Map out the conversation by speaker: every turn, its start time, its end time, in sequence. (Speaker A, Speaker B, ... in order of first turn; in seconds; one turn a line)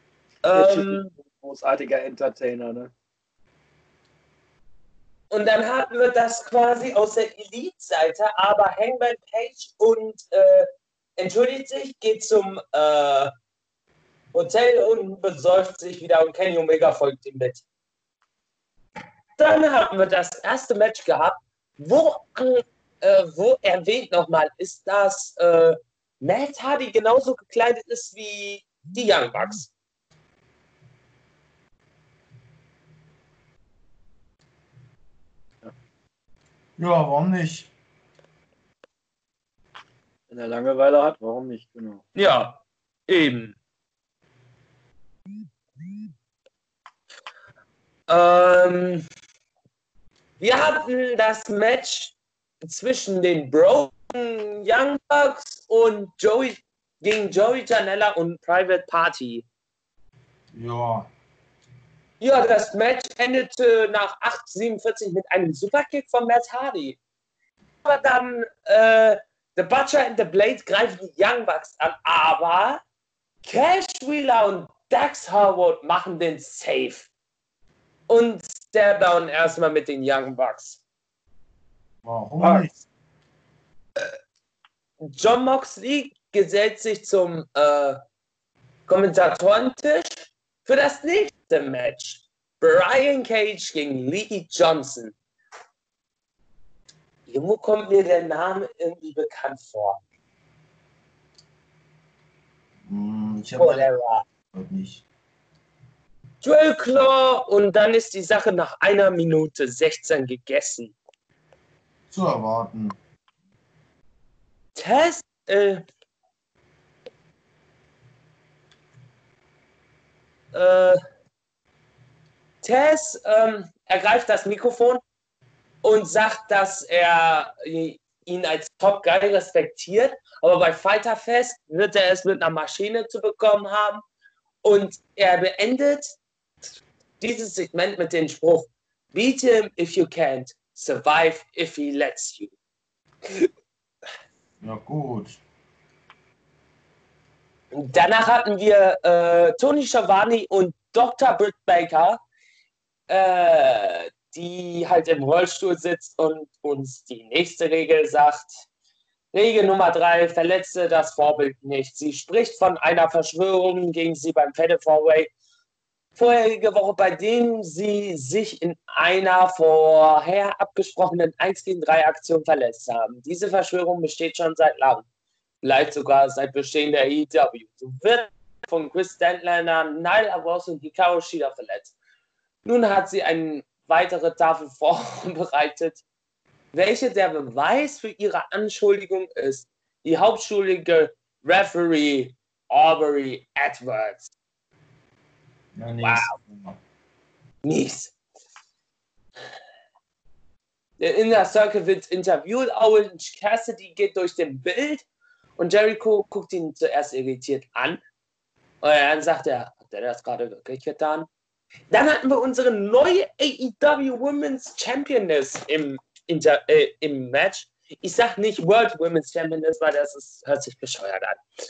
Speaker A: 0.4-1.1
Speaker B: 0.5-2.9
Speaker A: 5.3-13.3
Speaker A: 14.3-17.6
Speaker A: 19.4-29.7
Speaker C: 36.8-37.7
Speaker B: 40.3-42.0
Speaker A: 42.1-43.5
Speaker A: 48.1-49.0
Speaker A: 50.4-59.4
Speaker C: 60.5-61.1
Speaker A: 62.2-67.0
Speaker A: 67.8-72.8
Speaker A: 73.4-77.1
Speaker A: 78.1-80.8
Speaker C: 82.0-82.8
Speaker B: 82.4-82.7
Speaker A: 85.1-88.0
Speaker A: 88.9-95.1
Speaker A: 97.3-100.0
Speaker C: 102.9-103.9
Speaker A: 103.6-104.2
Speaker C: 104.5-105.0
Speaker A: 106.4-110.9
Speaker C: 112.1-112.9
Speaker A: 114.8-115.8
Speaker A: 120.5-121.0
Speaker A: 122.6-125.0
Speaker A: 125.8-134.0
Speaker A: 134.6-136.1
Speaker A: 137.2-142.5
Speaker C: 144.6-145.4
Speaker A: 147.7-152.2
Speaker A: 153.1-158.5
Speaker A: 159.3-165.3
Speaker A: 166.2-175.1
Speaker A: 175.6-181.9
Speaker A: 182.6-186.0
Speaker A: 186.7-194.3
Speaker C: 195.8-196.8
Speaker A: 196.0-196.3
Speaker A: 197.6-198.1
Speaker A: 201.0-205.0
Speaker A: 205.6-208.0
Speaker A: 208.8-211.3
Speaker A: 211.9-221.4